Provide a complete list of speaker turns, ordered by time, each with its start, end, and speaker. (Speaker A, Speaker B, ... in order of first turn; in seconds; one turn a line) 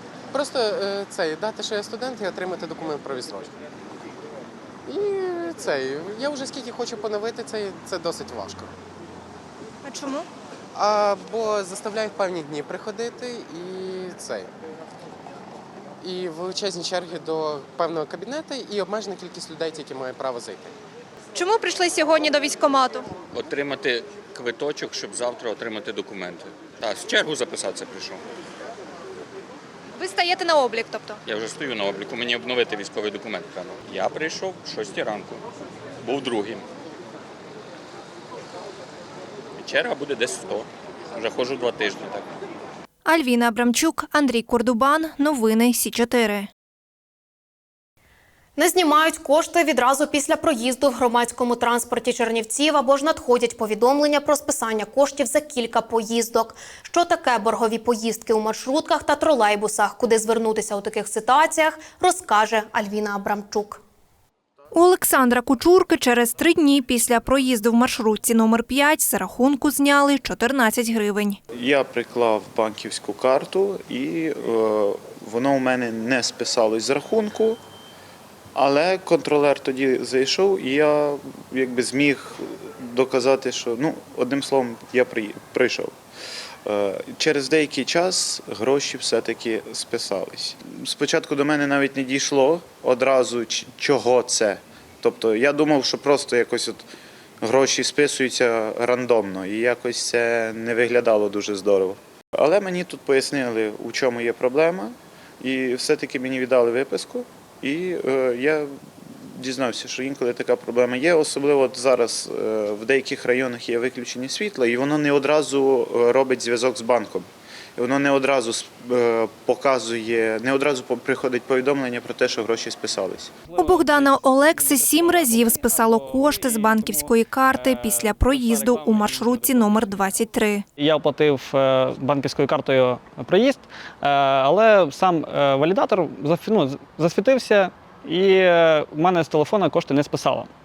Speaker A: 0.3-3.5
Speaker A: 4.8-8.7
Speaker A: 10.7-14.5
Speaker A: 16.0-20.7
Speaker B: 21.3-23.1
Speaker C: 23.3-28.2
Speaker B: 30.0-31.2
Speaker C: 31.2-35.4
Speaker C: 36.0-36.6
Speaker C: 39.6-42.3
Speaker D: 43.0-46.5
Speaker E: 48.5-63.8
Speaker D: 64.7-71.4
Speaker C: 71.5-77.6
Speaker C: 78.5-86.0
Speaker C: 86.7-96.8
Speaker C: 97.4-108.7
Speaker C: 109.3-123.3
Speaker F: 123.5-130.0
Speaker D: 123.5-130.6
Speaker F: 130.8-140.5